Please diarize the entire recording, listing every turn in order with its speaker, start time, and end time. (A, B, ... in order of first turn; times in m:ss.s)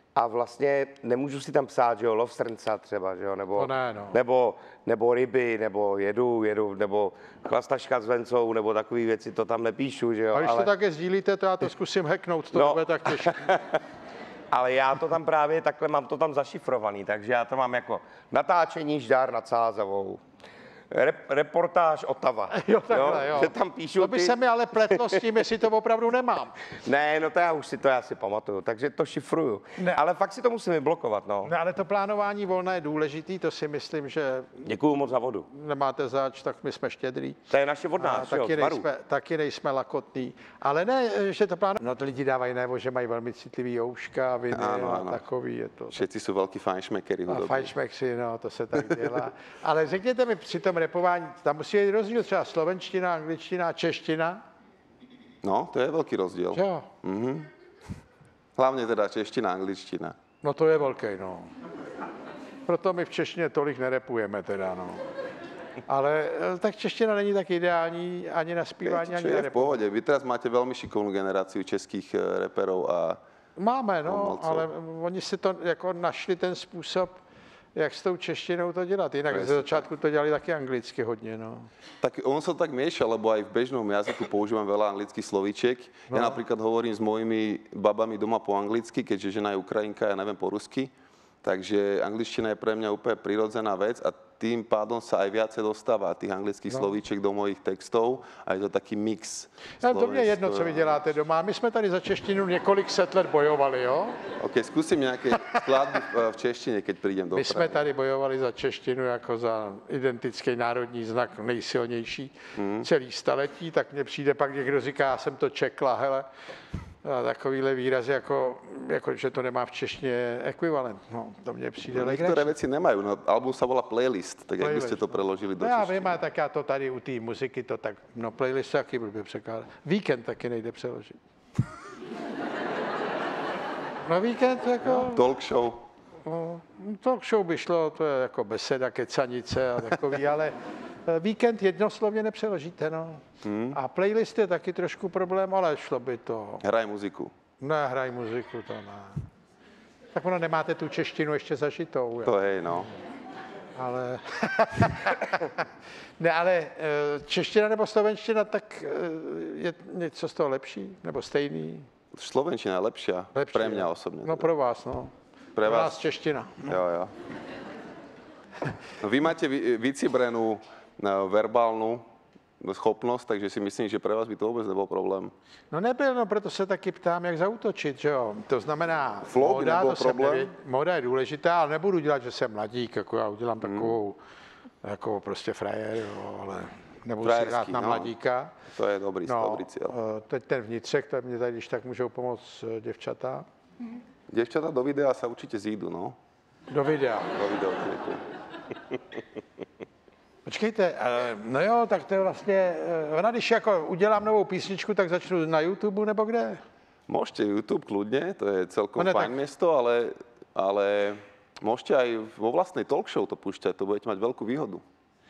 0:00.1-0:10.7 A
0:03.6-0:04.2 B
0:10.3-0:13.5 B
0:12.5-0:13.8 A
0:14.5-0:20.2 A
0:20.9-0:25.3 A
0:22.5-0:26.6 B
0:26.8-0:31.5 A
0:31.4-0:34.6 B
0:34.6-0:35.5 A
0:35.5-0:37.4 B
0:37.5-0:38.9 A
0:38.0-0:46.0 B
0:44.5-0:45.2 C
0:45.9-0:47.7 C
0:47.3-0:54.4 B
0:48.8-0:49.2 C
0:55.4-0:57.5 C
0:56.5-0:56.9 B
0:58.6-1:00.2 C
1:00.4-1:01.5 B
1:02.7-1:05.0 B
1:05.9-1:09.8 B
1:08.8-1:13.2 C
1:13.6-1:17.2 B
1:14.0-1:14.7 C
1:17.7-1:21.7 B
1:19.3-1:19.8 C
1:22.0-1:30.9 C
1:26.1-1:26.4 B
1:31.4-1:41.0 C
1:39.8-1:44.2 B
1:44.4-1:47.9 C
1:47.3-1:56.3 B
1:52.5-1:52.9 C
1:57.0-2:02.5 B
2:01.9-2:06.2 C
2:04.6-2:11.2 B
2:14.0-2:15.2 B
2:14.9-2:15.8 C
2:16.2-2:26.6 B
2:23.4-2:23.8 C
2:26.6-2:27.3 C
2:27.6-2:29.2 B
2:30.1-2:32.3 B
2:32.2-2:32.9 C
2:33.8-2:35.6 B
2:36.2-2:41.9 B
2:42.1-2:44.5 C
2:43.3-2:45.1 B
2:45.6-2:46.0 C
2:45.6-2:46.7 B
2:46.6-2:47.1 C
2:49.0-2:52.0 C
2:52.6-2:55.3 C
2:55.7-3:04.2 B
2:59.2-3:00.5 C
3:03.6-3:04.0 C
3:04.8-3:08.5 B
3:07.2-3:08.1 C
3:08.7-3:09.9 C
3:09.2-3:13.4 B
3:14.3-3:16.2 C
3:16.7-3:17.3 B
3:17.3-3:18.2 C
3:20.4-3:26.6 B
3:27.1-3:34.8 C
3:29.0-3:29.3 B